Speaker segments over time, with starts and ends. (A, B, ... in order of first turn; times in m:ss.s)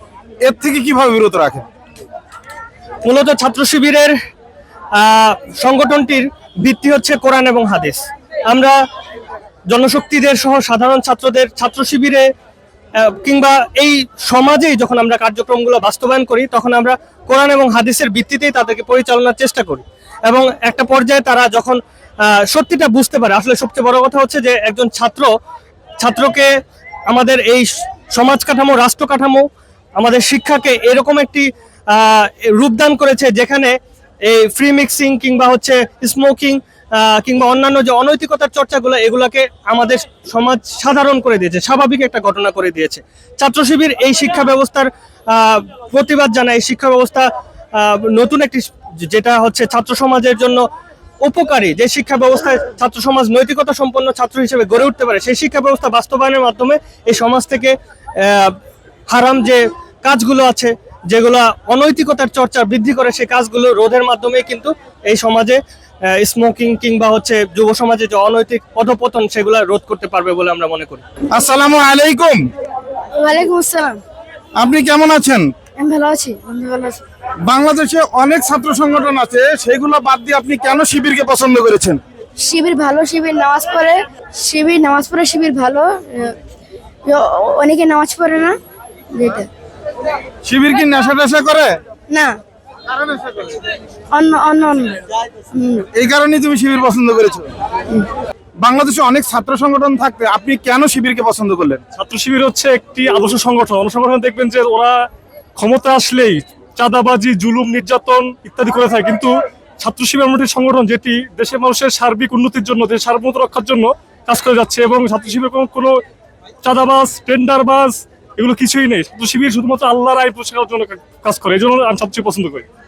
0:00.4-0:01.6 A
0:03.0-0:04.1 B
0:05.0-0:08.8 B
0:09.7-0:12.3 B
0:13.0-0:21.8 B
0:22.4-0:25.3 B
0:26.0-0:26.5 B
0:27.1-0:29.4 B
0:30.0-0:33.7 B
0:34.3-0:50.6 B
0:51.2-0:58.6 B
0:59.1-1:05.6 B
1:06.1-1:11.0 B
1:11.3-1:12.4 A
1:13.1-1:14.0 C
1:14.6-1:15.5 A
1:15.8-1:17.0 C
1:17.5-1:22.0 A
1:22.4-1:26.4 C
1:27.0-1:28.6 C
1:29.1-1:29.5 C
1:30.4-1:31.7 A
1:32.1-1:32.4 C
1:32.9-1:33.6 A
1:34.1-1:35.9 C
1:36.0-1:37.5 A
1:38.6-1:41.8 A
1:42.0-1:45.0 D
1:45.6-1:56.0 D
1:56.6-2:02.6 D